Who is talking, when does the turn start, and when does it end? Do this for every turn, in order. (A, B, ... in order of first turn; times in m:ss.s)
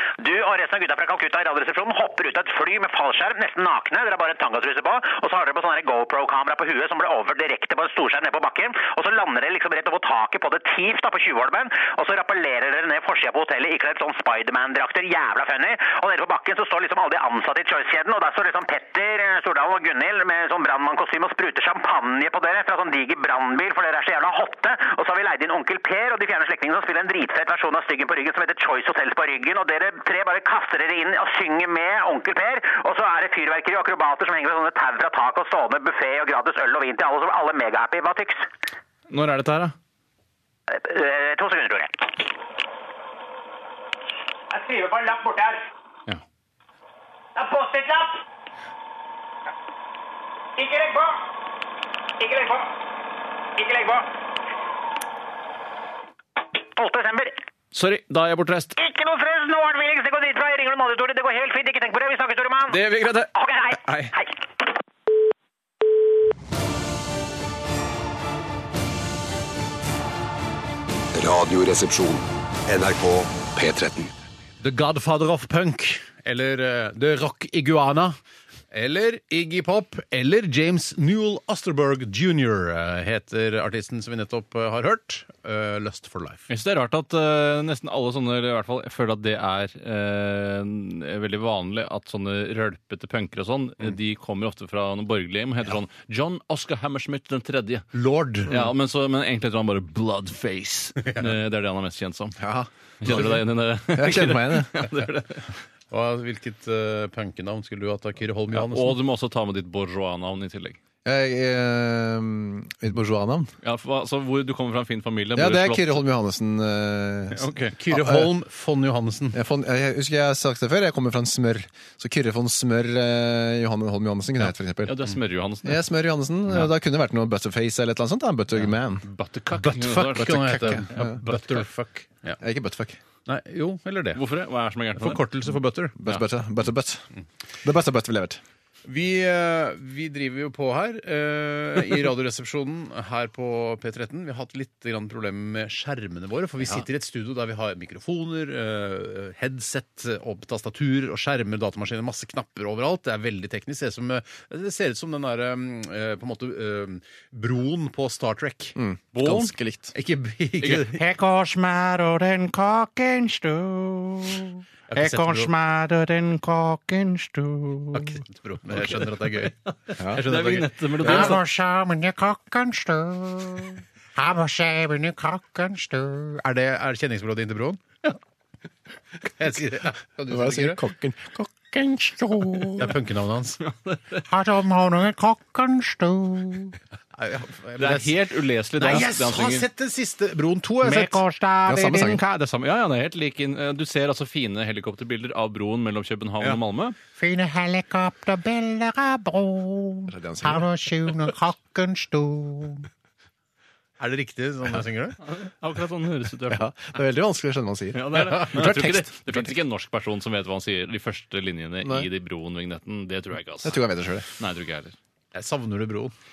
0:00.2-0:38.5 A
0:39.1-0:39.7 B
0:40.7-0:42.0 A
0:44.5-0:45.6 A
0:47.3-0:48.2 A
0:50.6-0:51.2 A
0:52.2-0:52.7 A
0:53.6-0:54.1 A
0:56.7-0:57.4 A
0:57.7-0:58.8 B
0:58.8-1:02.8 A
1:02.7-1:03.3 B
1:03.3-1:04.3 A
1:03.8-1:04.1 B
1:11.1-1:14.1 C
1:14.6-1:18.2 D
1:18.7-1:26.4 D
1:26.5-1:37.9 B
1:37.9-1:38.6 D
1:38.5-1:42.4 B
1:41.0-1:41.3 D
1:42.4-1:44.9 E
1:43.0-1:45.6 B
1:45.9-1:49.0 D
1:48.5-1:50.8 B
1:51.0-1:53.5 E
1:53.6-1:56.0 B
1:55.3-1:58.3 E
1:57.4-1:59.4 D
1:59.3-2:05.0 E
2:04.8-2:05.8 B
2:05.6-2:09.0 E
2:08.5-2:11.6 B
2:09.5-2:12.4 D
2:10.1-2:11.1 E
2:12.4-2:13.0 E
2:13.2-2:14.2 D
2:14.1-2:15.2 B
2:15.0-2:16.0 D
2:16.0-2:17.0 E
2:17.6-2:18.4 E
2:18.8-2:41.0 D
2:38.8-2:39.9 E
2:40.9-2:48.2 F
2:44.9-2:45.5 D
2:47.9-2:49.5 D
2:48.8-2:51.4 B
2:50.1-2:51.4 D
2:51.0-2:56.4 F
2:56.4-2:57.8 D
2:59.2-3:00.8 D
3:00.3-3:01.7 E
3:01.7-3:02.9 F
3:02.4-3:02.6 E
3:02.8-3:03.6 D
3:03.6-3:04.2 B
3:04.3-3:06.8 F
3:07.2-3:08.2 D
3:07.8-3:09.6 B
3:08.8-3:11.2 D
3:10.8-3:12.2 F
3:11.6-3:12.2 E
3:12.2-3:17.0 B
3:17.2-3:22.9 F
3:20.1-3:20.7 E
3:24.0-3:25.2 D
3:25.2-3:26.7 B
3:26.5-3:29.5 E
3:27.9-3:33.8 B
3:31.8-3:32.1 E
3:33.6-3:34.3 E
3:34.4-3:34.9 B
3:35.3-3:36.1 D